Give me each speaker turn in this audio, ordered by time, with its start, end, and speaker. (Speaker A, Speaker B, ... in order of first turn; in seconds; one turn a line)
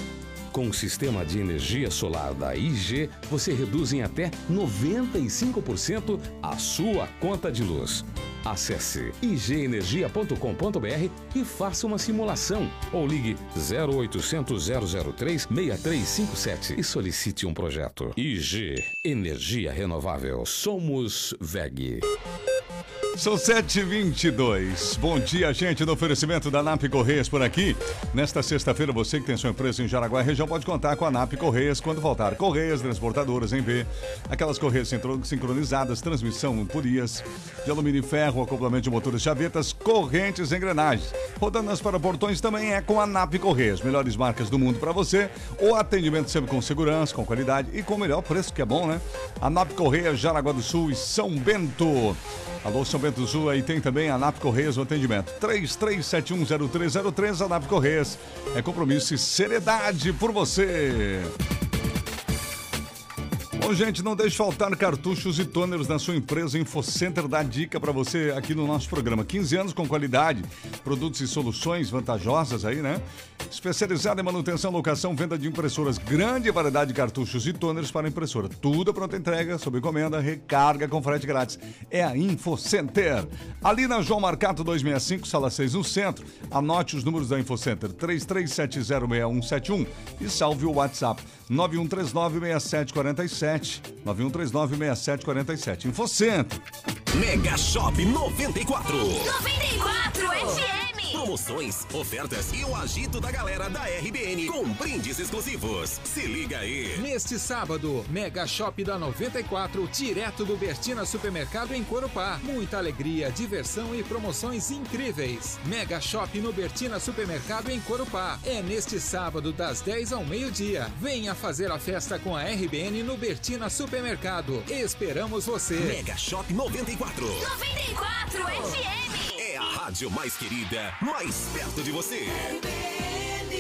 Speaker A: 0.5-22.1
Speaker B: 23.2-61.3
Speaker B: 63.6-96.6
Speaker C: 97.1-99.3
Speaker D: 99.2-101.2
Speaker C: 100.4-107.0
Speaker E: 106.9-126.0
Speaker C: 125.8-127.5
Speaker D: 127.4-129.5
Speaker C: 129.4-132.6